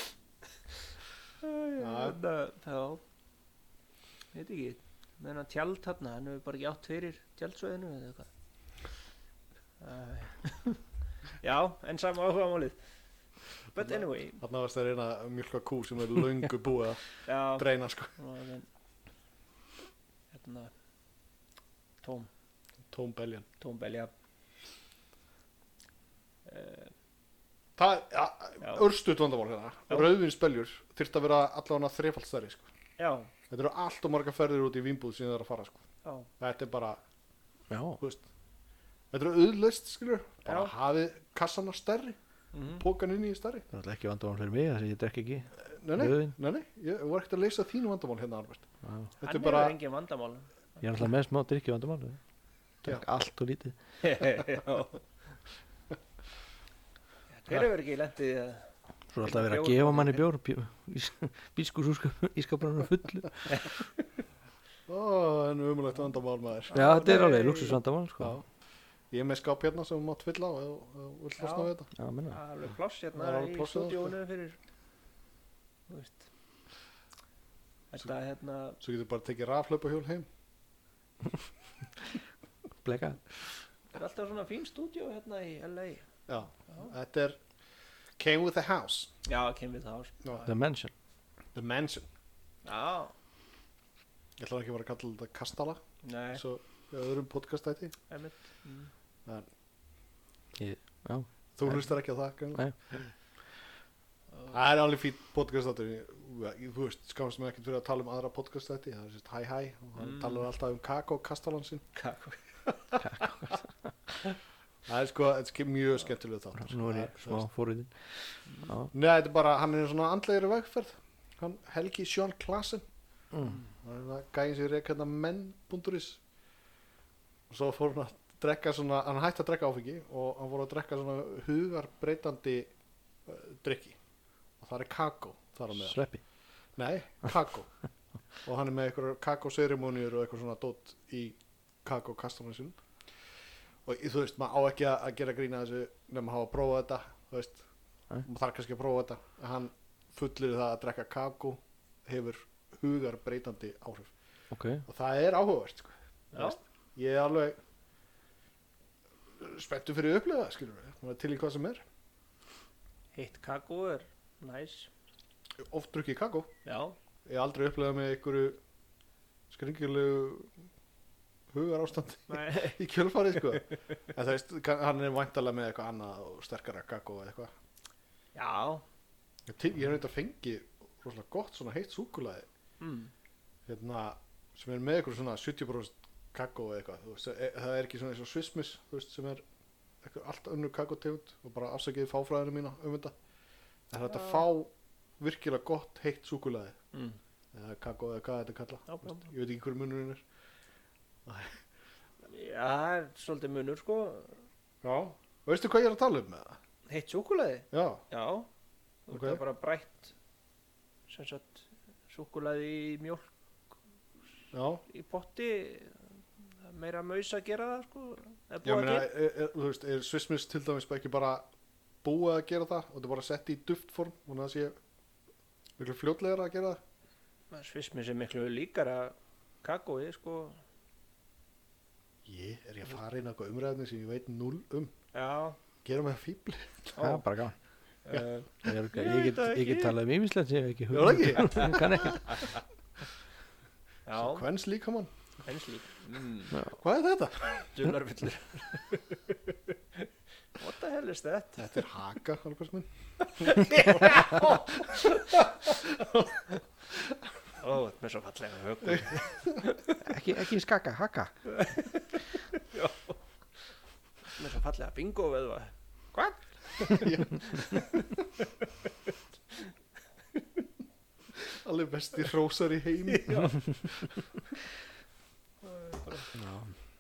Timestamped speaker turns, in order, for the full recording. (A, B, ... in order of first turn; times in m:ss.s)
0:01.4-0:03.0 A
0:01.8-0:02.2 B
0:04.3-0:08.3 A
0:09.8-0:10.8 A
0:11.4-0:12.8 A
0:13.7-0:14.4 A
0:14.4-0:18.1 B
0:17.3-0:18.7 A
0:20.3-0:20.7 A
0:22.0-0:22.3 A
0:22.9-0:23.5 B
0:23.6-0:24.1 A
0:26.5-0:26.9 A
0:27.8-0:32.7 B
0:33.0-0:33.3 A
0:33.5-0:35.8 B
0:36.4-0:37.0 B
0:37.7-0:38.0 C
0:39.1-0:42.2 B
0:40.5-0:40.7 A
0:42.5-0:42.8 A
0:42.8-0:43.7 B
0:43.7-0:46.3 C
0:45.7-0:48.7 B
0:48.8-0:49.1 C
0:49.2-0:49.8 B
0:49.2-0:50.8 A
0:50.8-0:52.2 C
0:52.8-0:53.8 C
0:54.0-0:55.0 A
0:57.3-0:58.7 A
0:59.1-1:03.5 C
0:59.2-1:00.2 A
1:04.9-1:06.9 B
1:06.7-1:07.8 A
1:06.7-1:08.4 C
1:09.1-1:11.9 B
1:11.4-1:11.7 A
1:12.0-1:12.4 C
1:12.3-1:14.6 A
1:13.2-1:14.2 B
1:15.9-1:16.3 A
1:17.9-1:18.8 A
1:18.8-1:20.3 B
1:22.8-1:23.2 C
1:23.9-1:26.1 A
1:26.3-1:27.4 B
1:28.2-1:29.1 B
1:29.3-1:30.2 A
1:30.2-1:30.5 B
1:30.5-1:30.9 C
1:31.5-1:32.1 B
1:32.6-1:33.1 A
1:34.4-1:35.8 B
1:36.0-1:36.4 A
1:36.3-1:38.0 B
1:38.1-1:38.9 A
1:40.6-1:41.9 C
1:41.6-1:43.1 B
1:44.5-1:51.8 B
1:50.0-1:50.4 A
1:52.0-1:52.4 A
1:53.0-1:53.6 C
1:54.9-1:57.5 B
1:56.6-1:58.9 C
1:58.9-2:02.8 B
2:03.3-2:03.6 C
2:03.8-2:06.2 B
2:07.5-2:12.7 B
2:13.3-2:14.0 B
2:14.6-2:16.0 B
2:15.8-2:16.2 C
2:16.8-2:17.7 B
2:18.4-2:22.8 B
2:23.9-2:27.6 B
2:28.2-2:34.1 B
2:34.5-2:34.8 C
2:34.9-2:37.6 B
2:39.4-2:41.8 B
2:43.2-2:44.9 A
2:45.7-2:46.5 B
2:46.6-2:47.0 A
2:47.3-2:48.6 B
2:49.5-2:50.5 B
2:51.5-2:57.5 B
2:52.3-2:52.8 A
2:58.4-2:58.8 A
2:59.5-3:02.5 B
3:02.8-3:03.1 A
3:03.7-3:09.4 B
3:10.0-3:13.1 B
3:13.9-3:16.8 B
3:14.1-3:14.4 A
3:16.9-3:17.2 A
3:17.5-3:20.2 B
3:18.9-3:19.3 A
3:21.3-3:21.6 B
3:22.2-3:24.4 A
3:24.8-3:26.6 B
3:26.9-3:28.5 A
3:27.7-3:28.0 B
3:29.1-3:30.1 A
3:29.1-3:29.4 B
3:31.1-3:33.3 A
3:34.5-3:34.8 B
3:34.9-3:39.1 A
3:38.6-3:41.5 B
3:42.0-3:44.8 B
3:45.8-3:46.8 B
3:47.5-3:50.6 A
3:52.3-3:54.9 B
3:55.1-3:55.6 A
3:55.8-3:57.0 B
3:57.0-3:57.2 A
3:57.0-3:57.6 C
3:58.0-4:00.0 A
3:58.6-4:02.5 C
4:00.9-4:02.3 B
4:01.6-4:02.4 A
4:04.1-4:04.4 A
4:04.1-4:05.1 B
4:05.4-4:06.6 A
4:06.8-4:07.7 B
4:07.6-4:09.2 A
4:10.6-4:11.7 A
4:11.6-4:16.5 B
4:13.2-4:15.3 A
4:17.6-4:20.0 A
4:20.0-4:21.3 C
4:21.5-4:23.2 A
4:24.4-4:28.7 A
4:26.8-4:28.0 B
4:31.5-4:34.1 B
4:33.1-4:33.8 A
4:35.6-4:36.3 A
4:36.3-4:36.7 C